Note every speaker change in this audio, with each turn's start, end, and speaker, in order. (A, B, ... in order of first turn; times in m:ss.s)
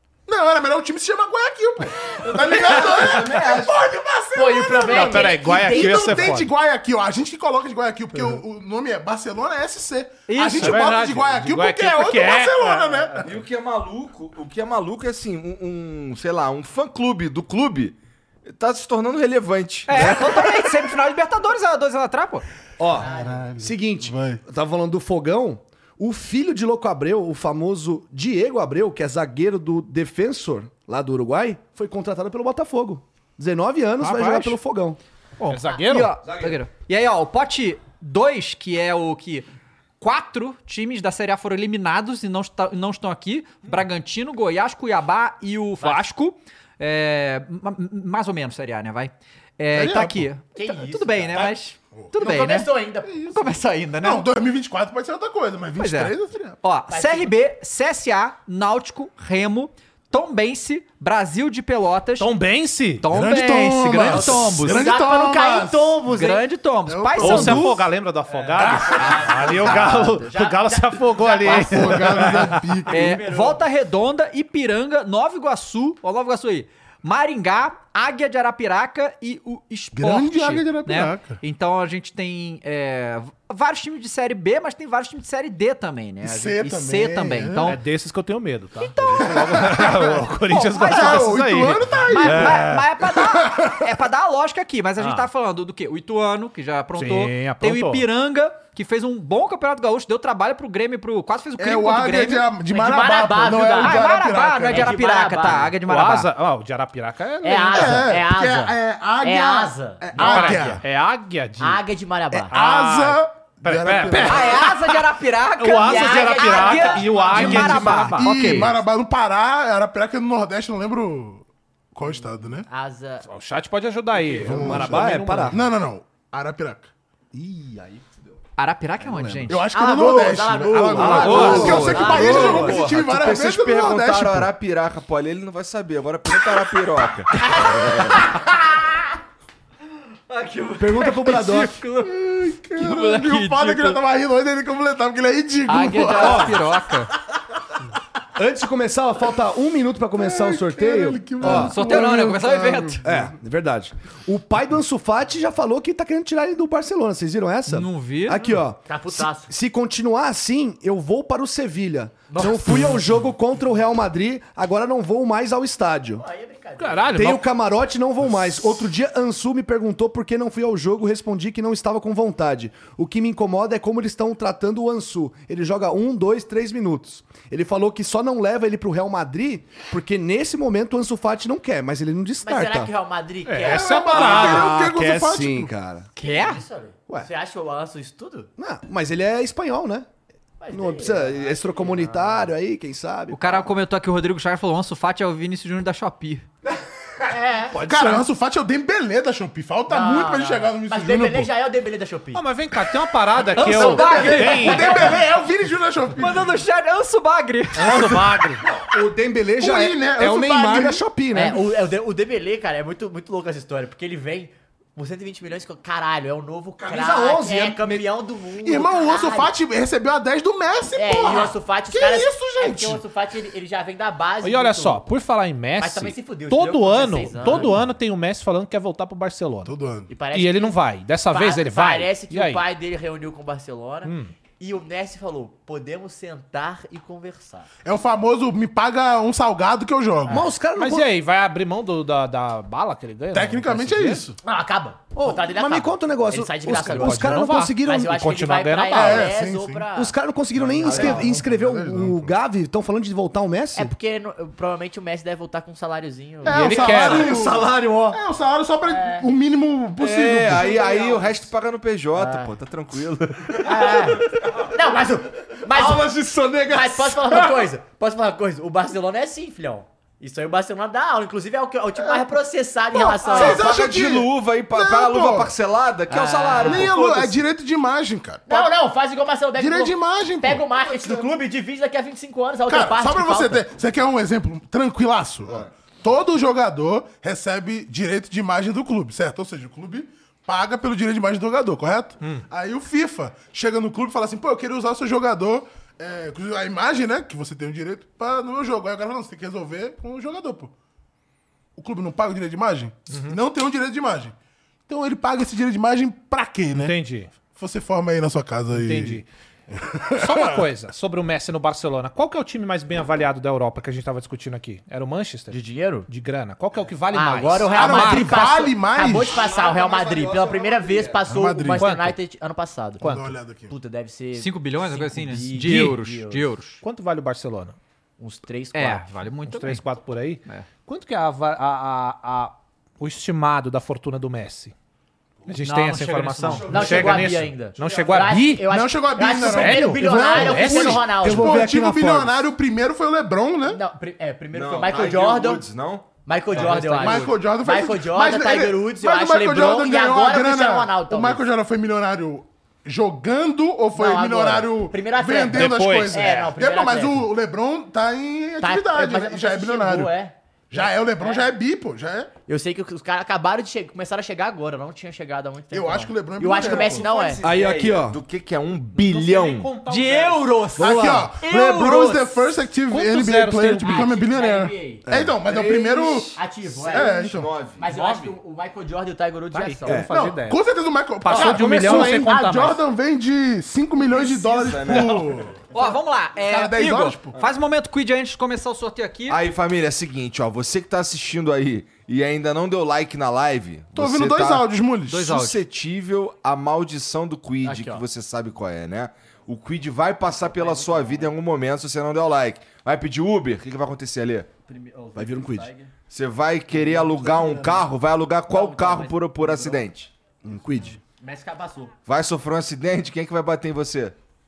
0:00.3-0:13.3 A
0:02.4-0:03.9 B
0:02.6-0:03.2 C
0:04.3-0:06.3 C
0:04.8-0:06.5 D
0:10.3-0:10.8 E
0:10.6-0:13.2 D
0:13.2-0:20.2 B
0:19.9-0:22.4 E
0:22.8-0:35.0 F
0:23.0-0:23.5 C
0:23.0-0:24.4 A
0:34.0-0:34.6 D
0:35.4-0:39.4 E
0:35.4-0:36.2 D
0:36.3-0:36.5 F
0:40.0-0:54.3 E
0:49.7-0:50.3 A
0:50.5-0:51.5 C
0:52.0-0:52.4 A
0:52.2-0:53.3 C
0:53.0-0:56.6 A
0:55.8-1:02.3 E
0:56.9-0:57.3 C
1:02.2-1:03.0 D
1:03.0-1:04.9 E
1:03.1-1:06.1 A
1:04.0-1:06.4 C
1:06.1-1:07.8 E
1:06.8-1:07.8 A
1:07.2-1:12.6 D
1:08.3-1:13.6 C
1:08.6-1:09.2 A
1:11.4-1:13.2 A
1:12.9-1:27.8 E
1:19.9-1:21.4 A
1:26.2-1:27.8 A
1:27.6-1:32.8 D
1:28.8-1:31.3 E
1:29.2-1:30.2 A
1:30.8-1:33.9 A
1:32.0-1:42.5 E
1:35.0-1:35.3 D
1:37.0-1:38.0 D
1:41.6-1:45.0 A
1:42.7-1:45.7 C
1:43.8-1:46.3 E
1:45.7-1:48.0 D
1:47.4-1:50.7 C
1:47.7-1:50.8 A
1:50.1-1:51.8 D
1:50.3-1:50.6 E
1:51.6-1:52.5 C
1:52.5-1:55.0 D
1:52.5-1:54.6 A
1:54.2-1:58.8 E
1:55.6-1:58.6 D
1:55.7-1:57.9 C
1:57.3-2:02.7 A
2:02.7-2:03.3 C
2:03.2-2:05.6 D
2:04.3-2:06.9 A
2:04.4-2:05.6 F
2:07.3-2:08.2 F
2:08.6-2:09.7 E
2:09.0-2:09.5 F
2:09.5-2:14.5 A
2:09.7-2:12.9 C
2:10.9-2:12.9 F
2:11.0-2:18.2 B
2:11.1-2:12.1 D
2:11.2-2:12.3 E
2:17.4-2:18.5 C
2:20.6-2:24.0 E
2:20.8-2:21.8 F
2:22.0-2:26.6 A
2:25.7-2:27.1 E
2:26.1-2:26.6 F
2:28.4-2:32.1 F
2:30.2-2:33.1 A
2:31.4-2:33.0 E
2:33.0-2:46.2 F
2:37.7-2:38.6 E
2:38.9-2:39.5 C
2:42.3-2:43.0 C
2:46.2-2:47.3 C
2:46.8-2:47.4 D
2:47.1-3:02.9 F
3:02.4-3:04.4 C
3:03.4-3:04.8 D
3:03.6-3:05.7 A
3:04.1-3:06.1 F
3:06.2-3:06.6 E
3:06.2-3:08.5 C
3:08.6-3:10.1 F
3:10.6-3:12.3 C
3:10.7-3:13.6 F
3:13.3-3:16.4 E
3:17.3-3:17.8 C
3:17.7-3:18.2 D
3:17.8-3:21.5 A
3:19.9-3:22.4 C
3:22.3-3:25.0 D
3:23.5-3:25.2 E
3:23.6-3:25.2 C
3:23.9-3:26.6 A
3:26.2-3:28.1 E
3:27.8-3:28.6 D
3:27.9-3:31.6 F
3:29.6-3:31.0 A
3:31.3-3:39.5 C
3:36.8-3:38.1 F
3:38.6-3:43.0 A
3:41.0-3:45.0 C
3:44.4-3:49.7 D
3:45.8-3:47.8 C
3:49.6-3:50.1 A
3:50.1-3:50.8 C
3:50.3-3:52.6 D
3:51.3-3:57.7 C
3:54.0-3:54.3 D
3:57.8-4:00.4 A
4:00.3-4:01.1 F
4:00.7-4:04.2 D
4:03.3-4:04.4 A
4:04.4-4:10.1 C
4:05.1-4:08.3 F
4:06.9-4:09.3 D
4:08.9-4:09.9 A
4:09.9-4:13.9 F
4:10.7-4:12.3 A
4:10.8-4:11.4 C
4:13.7-4:17.2 C
4:16.4-4:21.0 A
4:16.4-4:17.3 D
4:16.8-4:18.2 F
4:18.8-4:19.3 C
4:20.0-4:23.7 B
4:20.6-4:21.3 C
4:22.1-4:22.5 C
4:23.6-4:26.1 C
4:25.7-4:27.4 F
4:26.7-4:33.7 C
4:32.9-4:35.5 A
4:33.3-4:37.4 B
4:36.1-4:36.9 C
4:36.6-4:38.7 A
4:38.5-4:43.6 C
4:39.5-4:41.3 A
4:42.7-5:00.7 A
5:01.8-5:04.3 A
5:03.1-5:03.4 D
5:04.9-5:07.0 A
5:06.7-5:07.3 D
5:07.5-5:10.6 A
5:08.7-5:09.2 D
5:10.1-5:18.4 D
5:15.5-5:16.1 C
5:17.1-5:23.1 C
5:17.7-5:19.4 A
5:19.2-5:21.2 F
5:21.3-5:21.9 A
5:21.7-5:22.2 D
5:23.0-5:23.3 D
5:23.0-5:23.7 A
5:23.7-5:26.5 C
5:24.3-5:26.8 E
5:25.6-5:25.9 D
5:26.8-5:27.8 D
5:28.2-5:29.2 C
5:28.7-5:29.8 E
5:29.5-5:34.7 D
5:35.4-5:38.7 D
5:35.6-5:36.8 E
5:36.5-5:37.3 F
5:36.6-5:41.7 C
5:38.7-5:43.8 A
5:39.4-5:41.1 D
5:40.0-5:42.4 F
5:43.7-5:45.6 C
5:44.5-5:46.1 B
5:46.2-5:51.5 C
5:46.5-5:47.4 E
5:46.9-6:00.1 A
5:53.9-5:57.3 C
5:55.5-5:56.5 D
5:58.6-6:01.5 C
6:00.7-6:02.3 A
6:02.5-6:07.4 C
6:05.7-6:07.1 A
6:06.6-6:09.7 B
6:07.4-6:08.2 F
6:08.9-6:10.6 D
6:09.9-6:12.5 C
6:10.8-6:16.4 A
6:12.9-6:14.1 D
6:13.8-6:15.0 C
6:15.1-6:16.2 F
6:15.5-6:16.0 B
6:16.4-6:17.2 C
6:16.6-6:17.9 B
6:16.9-6:17.5 A
6:17.8-6:20.1 C
6:17.9-6:18.3 D
6:19.5-6:20.6 D
6:20.1-6:25.6 A
6:21.2-6:22.8 D
6:21.3-6:22.3 F
6:21.3-6:21.7 C
6:24.1-6:25.3 B
6:25.7-6:29.4 E
6:26.4-6:27.4 A
6:29.3-6:44.5 B
6:33.9-6:35.3 A
6:35.1-6:35.6 E
6:37.6-6:38.0 C
6:40.5-6:41.3 C
6:44.6-6:45.9 C
6:45.1-6:45.7 F
6:46.1-6:50.1 B
6:46.8-6:47.8 A
6:48.5-6:49.8 C
6:50.4-6:51.0 F
6:51.0-6:51.9 C
6:52.0-6:54.2 B